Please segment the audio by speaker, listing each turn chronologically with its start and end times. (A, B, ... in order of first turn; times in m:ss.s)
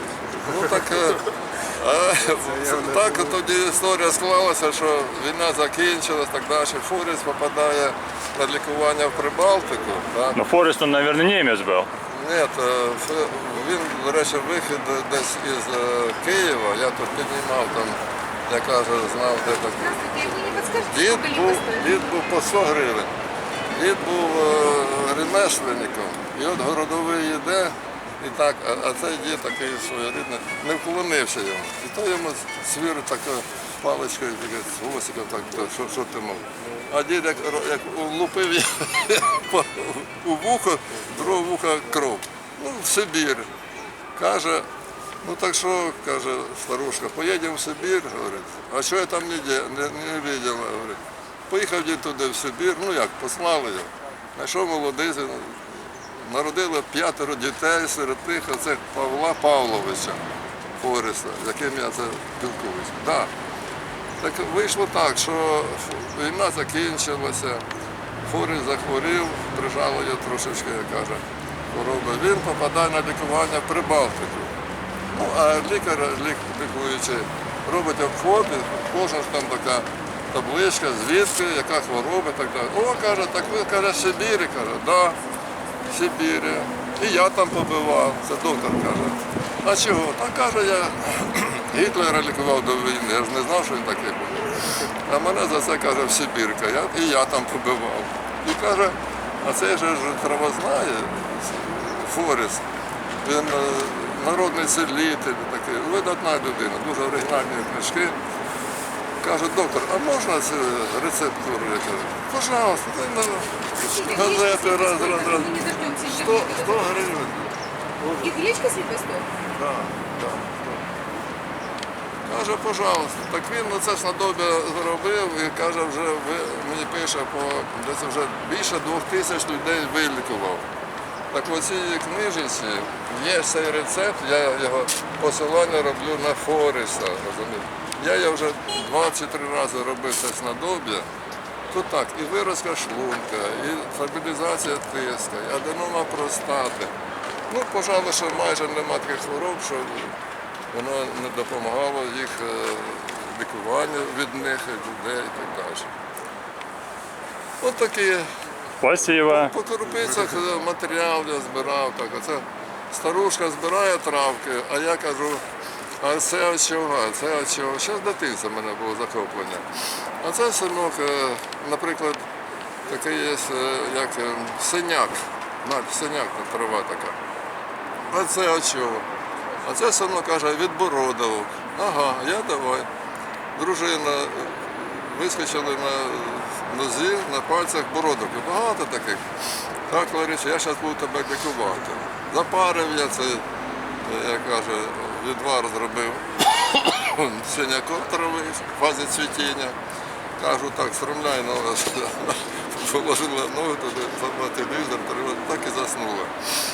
0:00.4-0:10.4 A
0:10.4-0:11.9 B
0:12.1-0:20.2 A
0:19.9-0:21.9 C
0:20.8-0:23.2 A
0:23.8-0:43.5 A
0:44.2-0:44.7 A
0:45.2-1:00.2 A
1:00.8-1:03.3 A
1:04.2-1:07.6 A
1:08.3-1:14.5 A
1:15.1-1:25.2 A
1:25.9-1:42.7 A
1:43.2-1:48.2 A
1:49.2-1:57.6 A
1:53.8-1:56.8 C
1:58.2-1:59.3 C
1:59.5-2:00.8 A
2:02.3-2:10.6 A
2:11.3-2:21.1 A
2:21.7-2:26.9 A
2:27.5-2:30.2 A
2:30.7-2:35.9 A
2:37.6-2:38.3 A
2:38.8-2:39.5 B
2:39.2-2:45.4 A
2:46.0-2:49.7 A
2:50.2-2:52.2 A
2:52.9-2:57.2 A
2:58.1-2:59.1 A
2:59.6-3:02.9 A
3:03.6-3:09.2 A
3:09.9-3:13.4 A
3:14.0-3:19.8 A
3:20.4-3:26.3 A